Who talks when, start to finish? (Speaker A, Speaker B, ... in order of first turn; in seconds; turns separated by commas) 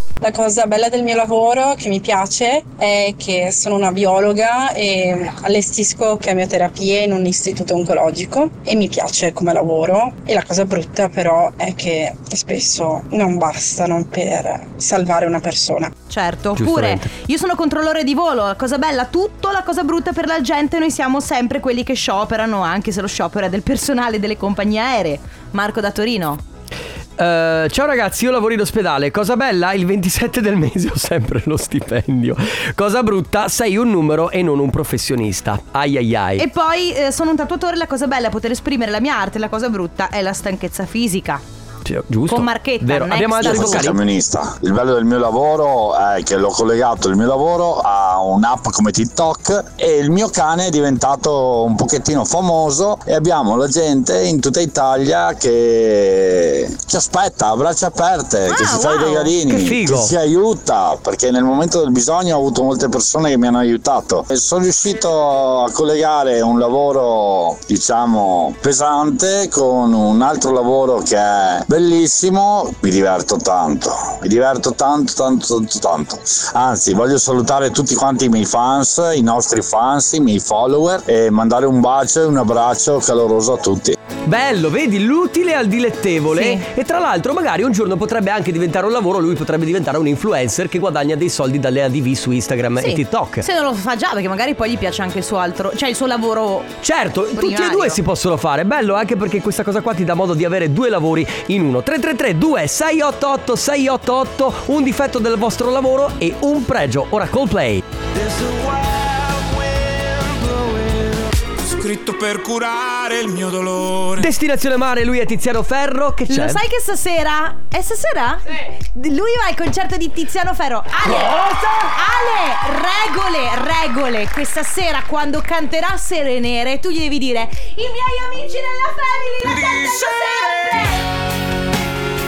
Speaker A: 0.2-15.9, Speaker B: 16.1-26.4, Speaker C: 16.6-17.1, Speaker C: 27.2-36.5, Speaker B: 36.4-41.4, Speaker C: 41.9-44.0, Speaker B: 42.3-44.0, Speaker D: 43.4-84.0, Speaker B: 58.5-59.4, Speaker C: 59.5-60.2, Speaker C: 84.2-93.5, Speaker B: 86.3-86.7, Speaker B: 92.8-96.8, Speaker C: 96.8-107.8, Speaker B: 97.3-98.0, Speaker E: 108.2-109.1, Speaker E: 111.6-114.2, Speaker C: 114.2-116.6, Speaker B: 116.3-131.0, Speaker E: 129.7-130.4